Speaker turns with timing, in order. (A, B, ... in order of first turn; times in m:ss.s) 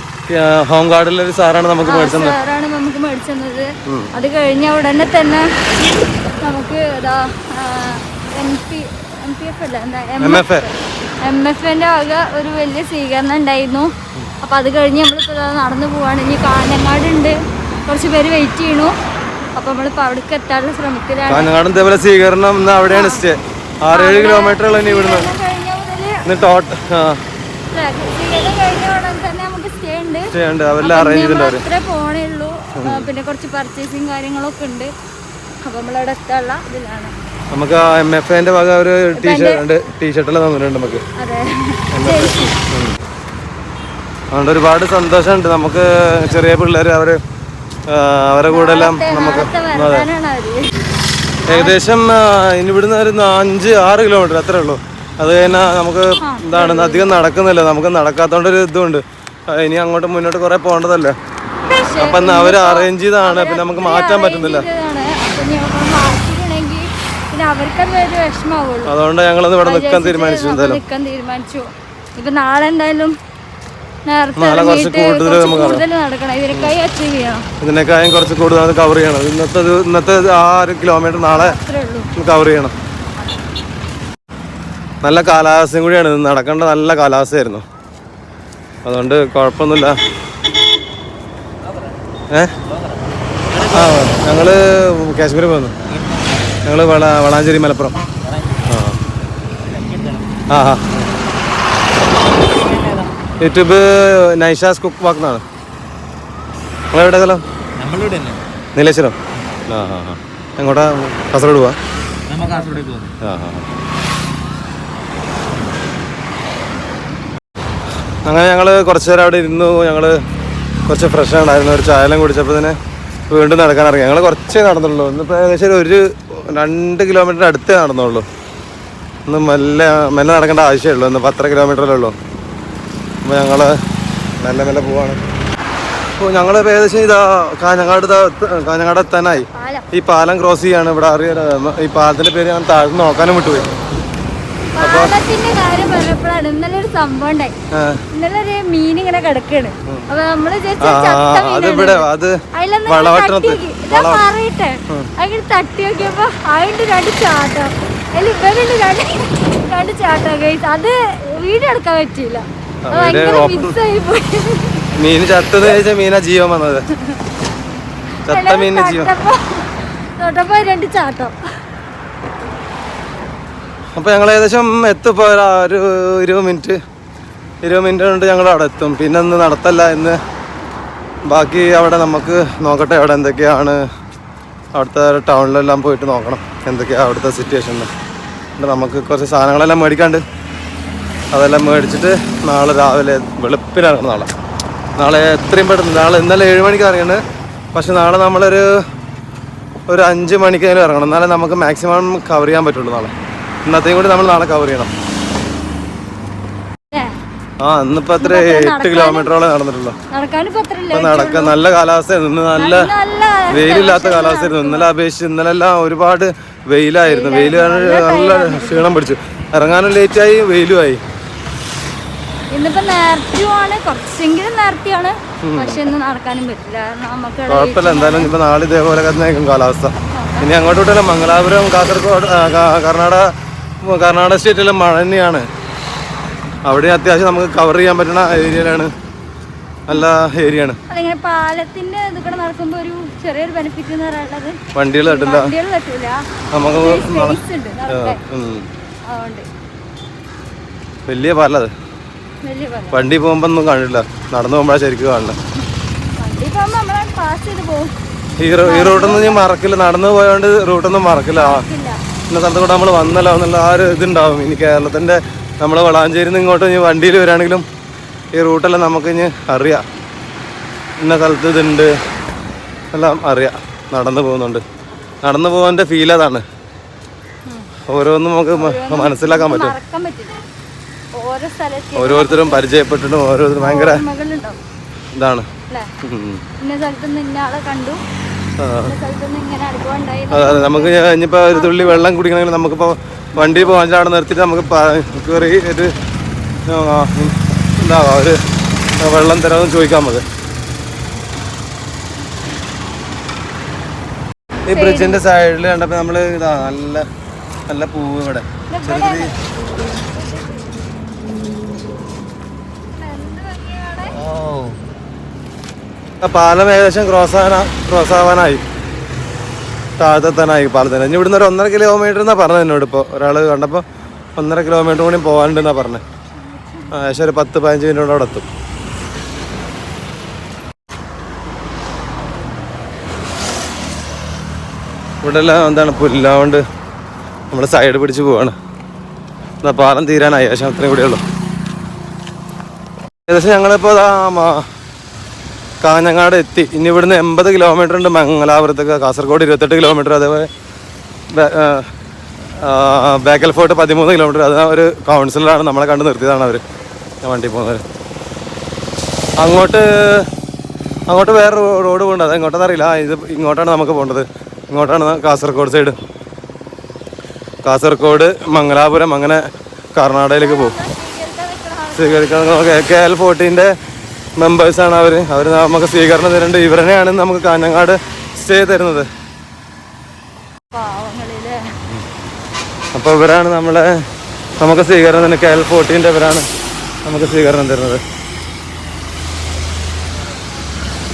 0:00.3-0:02.4 A
0:01.8-0:05.5 B
0:06.4-0:13.9 B
0:10.2-0:10.7 A
0:14.4-0:18.9 B
0:19.6-0:21.5 B
0:21.3-0:25.3 A
0:22.9-0:23.2 B
0:23.9-0:26.2 B
0:26.3-0:27.2 A
0:27.7-0:34.9 B
0:30.3-0:31.6 A
0:32.8-0:33.1 A
0:35.6-0:37.1 B
0:37.5-0:41.0 A
0:39.1-0:39.7 B
0:41.2-0:42.6 B
0:41.9-0:43.0 A
0:44.3-0:47.2 A
0:47.9-0:50.1 A
0:48.5-0:50.7 B
0:51.5-0:51.8 B
0:51.5-1:01.2 A
0:56.2-0:57.2 B
1:01.6-1:09.0 B
1:02.0-1:04.7 A
1:08.9-1:10.8 A
1:09.6-1:13.2 B
1:14.1-1:17.4 B
1:14.4-1:15.8 A
1:17.6-1:21.6 A
1:21.3-1:22.1 B
1:22.2-1:22.8 A
1:25.0-1:27.6 A
1:28.8-1:30.0 A
1:33.5-1:33.9 C
1:33.6-1:35.8 A
1:35.9-1:36.5 C
1:36.6-1:38.0 A
1:38.7-1:39.0 A
1:39.6-1:40.3 C
1:40.5-1:41.0 A
1:42.3-1:43.1 C
1:43.4-1:45.4 A
1:46.9-1:47.4 A
1:47.8-1:48.4 C
1:48.8-1:49.2 A
1:49.7-1:51.8 A
1:52.3-1:53.1 C
1:53.2-1:53.7 A
1:58.2-2:00.2 A
2:00.9-2:02.8 A
2:03.3-2:08.3 A
2:09.3-2:12.2 A
2:13.2-2:13.8 A
2:14.4-2:15.2 A
2:16.2-2:23.7 A
2:19.4-2:19.9 B
2:24.8-2:27.5 B
2:24.8-2:25.1 A
2:27.8-2:28.0 A
2:28.1-2:44.9 B
2:30.8-2:34.2 A
2:42.9-2:43.8 A
2:45.0-2:46.8 A
2:48.3-2:49.1 A
2:48.3-2:51.4 B
2:54.0-2:56.8 A
2:57.6-3:00.2 A
3:01.3-3:03.8 A
3:04.7-3:07.9 A
3:08.6-3:10.2 A
3:11.3-3:14.3 A
3:15.0-3:17.2 A
3:17.7-3:18.7 A
3:19.9-3:23.1 A
3:23.7-3:24.9 A
3:26.9-3:27.2 B
3:27.6-3:30.0 A
3:28.2-3:29.3 B
3:30.1-3:31.6 B
3:30.9-3:32.9 A
3:32.6-3:34.9 B
3:33.5-3:41.0 A
3:37.0-3:39.0 B
3:42.5-3:48.3 B
3:45.4-3:45.8 A
3:47.5-3:55.5 A
3:50.1-3:50.5 B
3:56.7-3:58.9 A
3:59.9-4:00.8 A
4:00.9-4:08.2 B
4:04.8-4:05.5 A
4:06.6-4:08.7 A
4:09.1-4:09.5 B
4:11.1-4:11.7 A
4:12.4-4:13.1 B
4:12.9-4:15.4 A
4:16.2-4:17.9 B
4:18.4-4:21.6 A
4:18.6-4:19.5 B
4:21.3-4:22.0 B
4:22.3-4:27.7 A
4:28.3-4:29.9 A
4:31.0-4:32.0 A
4:32.9-4:34.6 A
4:35.2-4:36.4 A
4:37.9-4:39.8 A
4:38.5-4:40.4 B
4:41.2-4:42.7 B
4:42.0-4:44.0 A
4:43.6-4:44.6 B
4:45.2-4:45.5 A
4:46.0-4:46.4 A
4:46.6-4:48.0 B
4:48.6-4:49.0 A
4:48.8-4:52.0 B
4:50.3-4:56.0 A
4:53.4-4:53.8 B
4:56.7-4:58.4 A
4:59.0-5:00.3 A
5:04.7-5:07.1 A
5:04.7-5:05.2 B
5:07.7-5:09.3 A
5:08.7-5:09.4 B
5:10.1-5:10.6 B
5:12.9-5:14.2 B
5:14.2-5:14.7 A
5:16.2-5:18.6 A
5:20.0-5:23.8 A
5:24.4-5:26.0 A
5:26.5-5:27.0 B
5:26.9-5:28.5 A
5:35.2-5:36.6 A
5:37.5-5:38.6 A
5:39.6-5:41.2 A
5:43.3-5:44.7 A
5:45.8-5:50.5 A
5:51.3-5:51.9 A
5:52.5-5:56.6 A
5:57.2-5:57.8 A
5:59.4-6:00.3 A
6:01.1-6:06.0 A
6:07.6-6:09.4 A
6:10.0-6:10.8 A
6:10.3-6:12.6 B
6:11.9-6:13.7 A
6:14.4-6:19.1 A
6:20.7-6:21.6 B
6:22.9-6:24.0 A
6:24.6-6:26.5 A
6:27.0-6:28.0 A